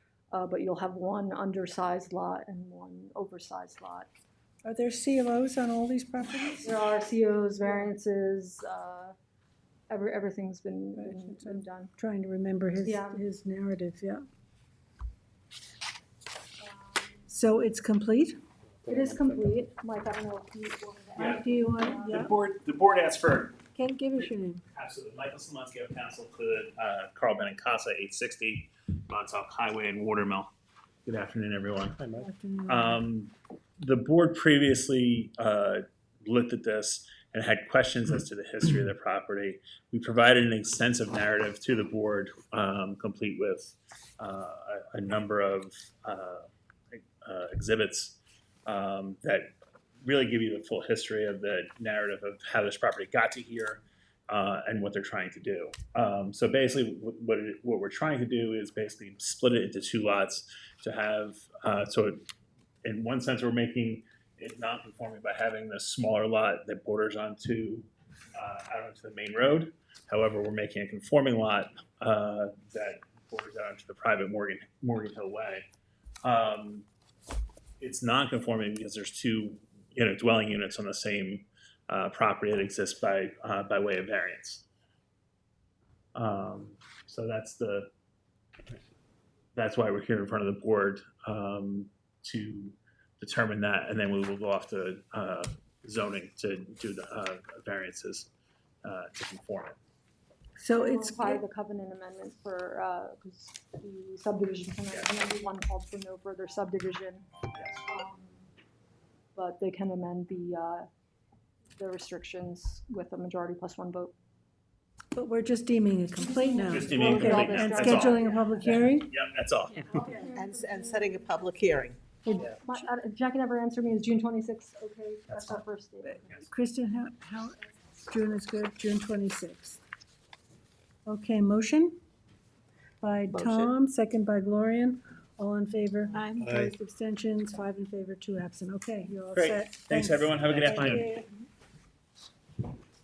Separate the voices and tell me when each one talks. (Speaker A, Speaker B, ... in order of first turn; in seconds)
Speaker A: 0.3-4.1, 6.6-9.1, 9.9-11.9, 12.8-13.2, 16.6-17.2, 18.9-22.3, 100.8-107.3, 107.8-108.5, 109.3-110.9, 111.8-114.1, 116.2-118.7, 120.0-120.5, 122.3-126.4
Speaker B: 4.7-6.8, 7.6-7.9, 10.9-14.2, 17.3-18.4, 21.2-22.3, 23.8-24.6, 32.2-33.0, 100.6-101.4, 115.2-119.2, 119.8-121.2, 122.2-122.9, 126.5-129.8, 131.1-132.0, 133.0-141.3
Speaker C: 18.8-19.6, 31.9-32.3, 136.4-136.7, 140.6-141.0
Speaker D: 22.0-23.6, 24.2-30.5, 31.1-32.0, 32.7-49.5, 50.0-62.2, 62.8-75.7, 76.2-76.8, 77.8-84.7, 86.2-87.9, 89.5-98.3, 98.8-99.8, 107.5-107.8, 116.7-119.9, 125.3-125.6, 126.2-126.5, 139.3-141.1
Speaker E: 120.3-122.2, 133.3-133.7